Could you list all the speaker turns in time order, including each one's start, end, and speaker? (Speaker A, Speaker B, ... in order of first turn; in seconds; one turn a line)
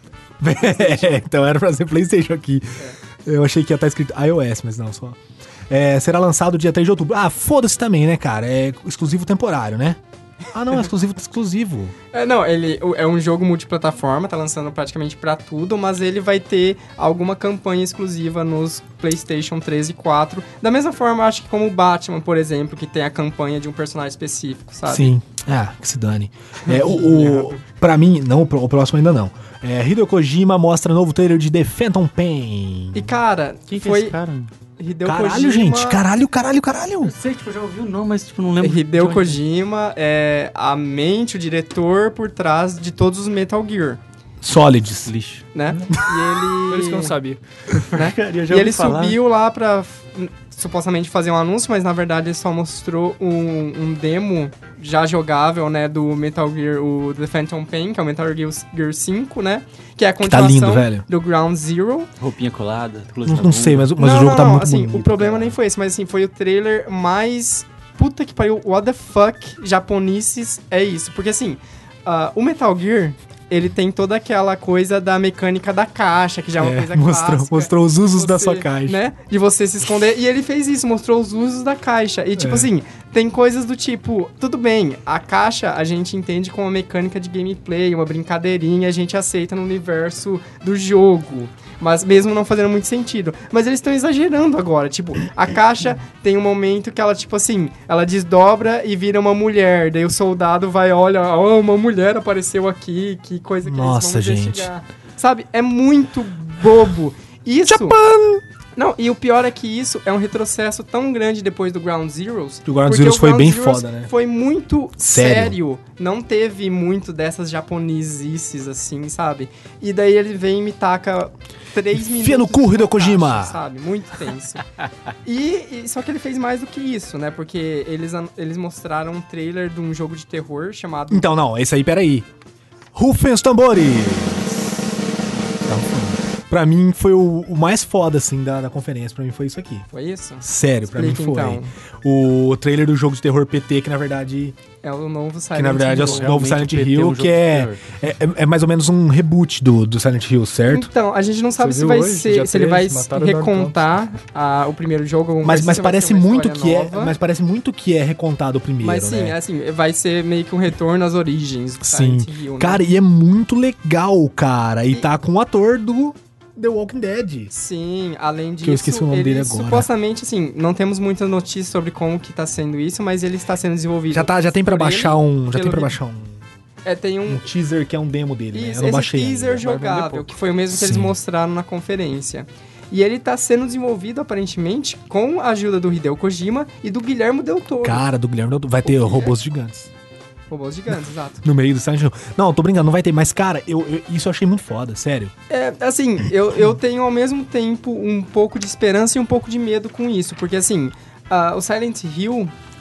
Speaker A: 0.4-5.2
Speaker B: 0.6-1.1
Speaker A: 5.7-10.0
Speaker A: 10.5-11.9
Speaker B: 12.1-25.1
Speaker A: 24.9-33.1
Speaker B: 26.6-27.6
Speaker B: 32.9-34.1
Speaker C: 33.7-34.5
Speaker B: 34.8-36.0
Speaker A: 35.0-37.1
Speaker C: 37.0-39.4
Speaker B: 38.6-44.0
Speaker A: 44.4-45.1
Speaker C: 45.0-45.5
Speaker B: 45.5-47.1
Speaker D: 46.7-47.4
Speaker C: 47.7-49.2
Speaker B: 47.9-62.1
Speaker A: 60.2-61.0
Speaker C: 62.2-63.9
Speaker A: 63.3-65.2
Speaker B: 64.0-108.0
Speaker C: 65.1-65.5
Speaker A: 76.6-79.0
Speaker A: 82.4-82.7
Speaker A: 103.6-104.7
Speaker A: 107.7-108.4
Speaker B: 108.8-124.6
Speaker A: 112.7-114.1
Speaker A: 115.0-115.5
Speaker A: 122.1-123.6
Speaker B: 125.2-131.3
Speaker A: 131.1-132.3
Speaker A: 132.9-134.8
Speaker A: 135.6-139.9
Speaker B: 139.9-141.7
Speaker A: 140.4-144.6
Speaker B: 144.8-146.3
Speaker A: 145.5-150.9
Speaker C: 146.0-148.0
Speaker B: 150.7-157.1
Speaker D: 151.6-153.8
Speaker A: 155.4-159.3
Speaker B: 158.8-162.8
Speaker A: 161.8-167.5
Speaker B: 167.5-175.9
Speaker A: 168.6-169.9
Speaker A: 174.1-176.4
Speaker B: 176.8-177.4
Speaker A: 177.3-179.6
Speaker B: 178.5-188.0
Speaker D: 179.6-180.4
Speaker A: 180.7-181.1
Speaker A: 187.8-189.9
Speaker B: 188.8-189.3
Speaker B: 190.5-191.4
Speaker A: 191.4-195.3
Speaker B: 195.5-202.5